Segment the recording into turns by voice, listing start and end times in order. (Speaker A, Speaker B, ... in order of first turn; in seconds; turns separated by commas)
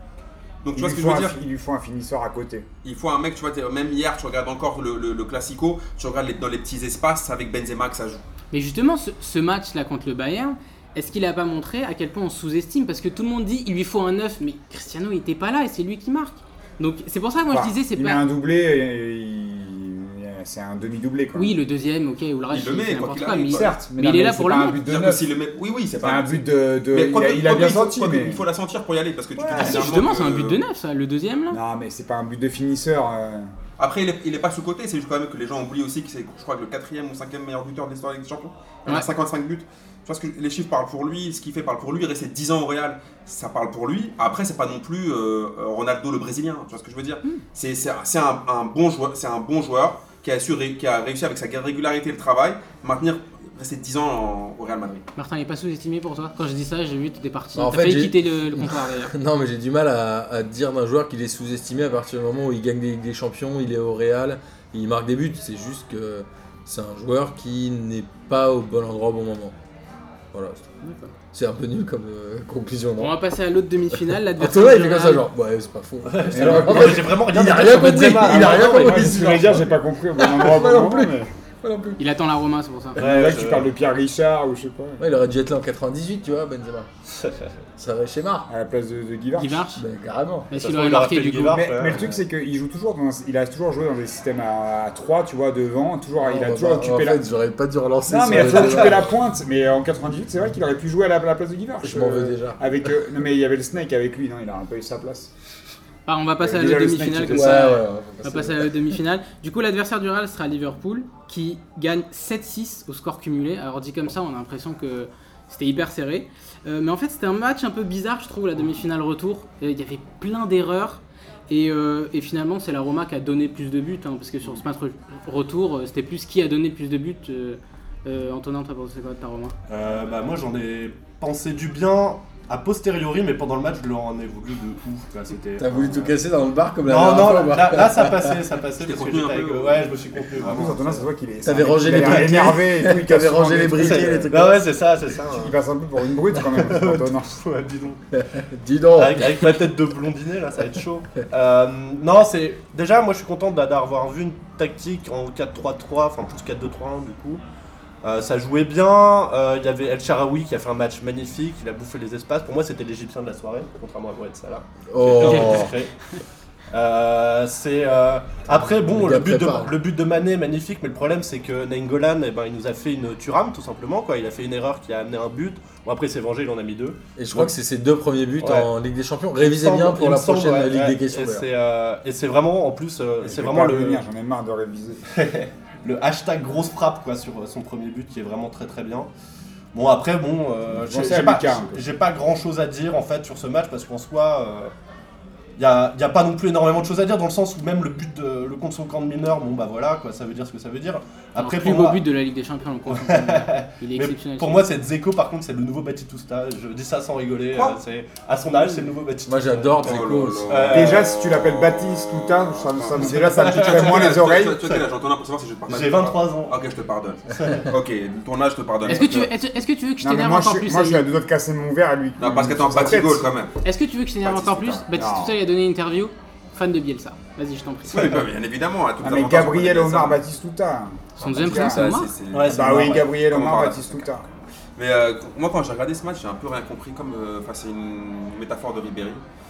Speaker A: 0.6-1.4, Speaker B: 0.7-2.6, Speaker A: 2.8-8.2, Speaker C: 8.5-18.2, Speaker B: 17.5-21.6, Speaker C: 21.3-24.8, Speaker A: 22.5-23.8, Speaker B: 23.5-25.2, Speaker A: 24.8-30.6, Speaker B: 26.0-28.4, Speaker B: 29.4-29.9, Speaker C: 29.6-31.6, Speaker B: 31.5-33.5, Speaker A: 33.8-55.0, Speaker C: 55.1-59.1, Speaker D: 57.5-69.5, Speaker D: 70.3-70.6, Speaker C: 70.8-71.1, Speaker D: 71.3-73.2, Speaker C: 73.0-75.2, Speaker D: 73.9-82.0, Speaker E: 76.0-79.4, Speaker B: 76.3-77.2, Speaker B: 78.1-81.3, Speaker C: 82.0-83.0, Speaker E: 83.0-83.7, Speaker B: 83.0-85.0, Speaker D: 85.0-86.9, Speaker E: 87.2-87.5, Speaker D: 87.8-88.5, Speaker B: 88.5-89.7, Speaker C: 89.3-89.8, Speaker D: 89.8-90.5, Speaker C: 90.5-91.7, Speaker E: 90.5-92.2, Speaker B: 91.5-97.2, Speaker D: 96.2-99.1, Speaker B: 98.1-105.3, Speaker D: 101.8-102.6, Speaker C: 106.1-129.5, Speaker B: 106.4-107.7, Speaker D: 107.2-109.0, Speaker E: 129.7-136.1, Speaker D: 135.6-138.4, Speaker E: 136.8-141.1, Speaker A: 138.8-140.7, Speaker B: 140.4-144.5, Speaker D: 141.4-144.6, Speaker E: 142.0-142.2, Speaker E: 143.7-145.6, Speaker B: 145.2-147.4, Speaker E: 146.4-148.0, Speaker D: 148.1-149.7, Speaker E: 148.9-157.4, Speaker E: 158.0-165.9, Speaker D: 164.9-165.7, Speaker E: 166.7-177.5, Speaker D: 168.6-169.8, Speaker D: 177.2-181.5, Speaker E: 178.4-178.7, Speaker E: 179.4-184.0, Speaker B: 183.2-185.0, Speaker E: 185.1-189.1, Speaker E: 189.7-194.7, Speaker B: 190.7-191.8, Speaker E: 195.6-202.0, Speaker C: 201.4-204.7, Speaker E: 202.9-211.1, Speaker D: 209.2-210.7, Speaker A: 209.8-219.3, Speaker B: 210.7-214.7, Speaker E: 213.0-214.7, Speaker E: 215.7-216.6, Speaker E: 217.3-217.7, Speaker C: 218.8-221.0, Speaker B: 220.0-223.3, Speaker A: 222.2-223.6, Speaker C: 223.6-228.2, Speaker A: 224.2-224.9, Speaker B: 224.9-225.4, Speaker A: 227.9-230.2, Speaker B: 229.0-231.9, Speaker C: 231.2-232.1, Speaker A: 231.3-234.1, Speaker E: 232.3-233.1, Speaker B: 232.5-234.2, Speaker A: 234.8-239.2